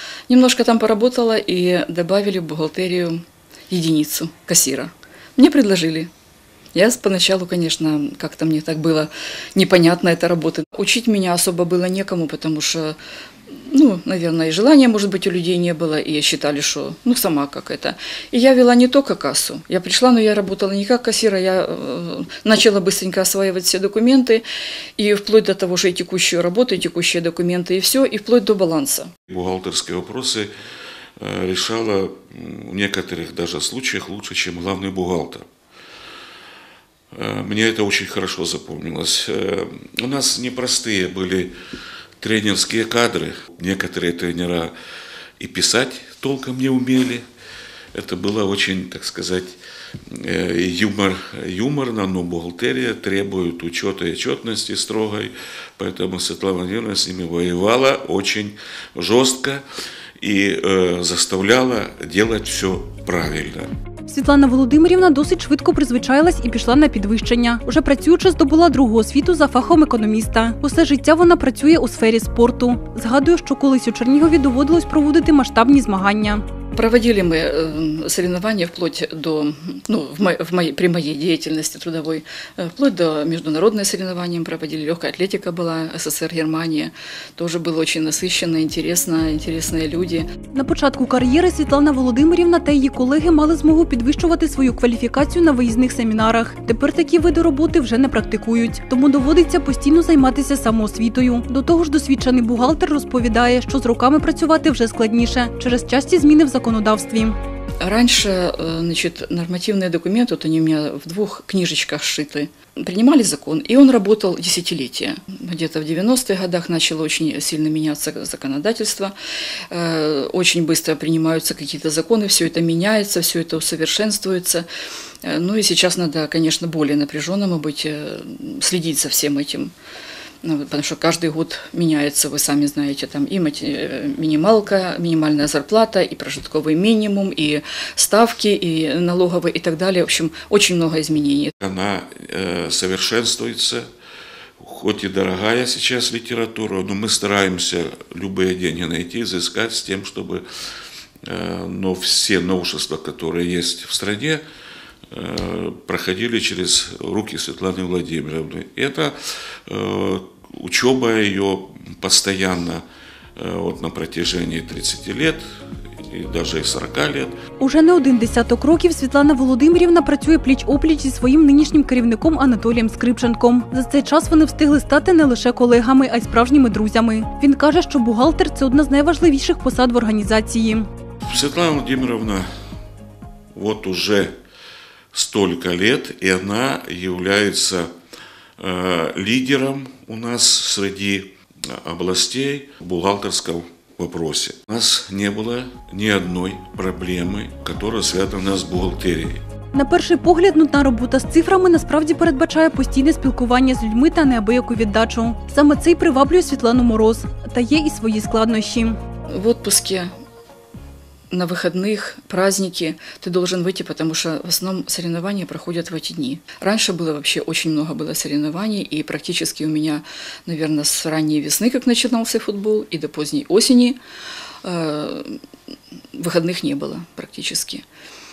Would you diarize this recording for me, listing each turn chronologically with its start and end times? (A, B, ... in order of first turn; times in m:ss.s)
0:00.3-0:06.1 A
0:06.7-0:13.0 A
0:13.5-0:24.4 A
0:25.0-0:29.1 A
0:29.3-0:30.5 B
0:31.2-0:35.4 B
0:37.1-0:41.5 B
0:42.2-0:44.7 B
0:45.4-0:47.2 B
0:47.9-0:49.6 B
0:50.1-0:59.6 B
1:00.2-1:03.7 B
1:04.1-1:16.4 C
1:16.8-1:30.3 A
1:30.5-1:47.4 C
1:47.8-1:59.1 A
1:59.7-2:04.7 A
2:05.2-2:09.7 A
2:10.4-2:21.5 A
2:21.6-2:23.8 B
2:24.6-2:30.4 B
2:31.2-2:34.4 B
2:35.1-2:39.2 B
2:39.7-2:42.8 B
2:43.4-2:45.4 B
2:46.0-2:47.3 B
2:47.6-3:00.9 C
3:01.2-3:02.5 B
3:03.5-3:04.3 B
3:05.1-3:07.9 B
3:08.6-3:19.4 B
3:19.7-3:29.0 C
3:29.3-3:30.1 A
3:31.3-3:44.0 A
3:44.6-3:45.4 A
3:46.1-3:47.8 A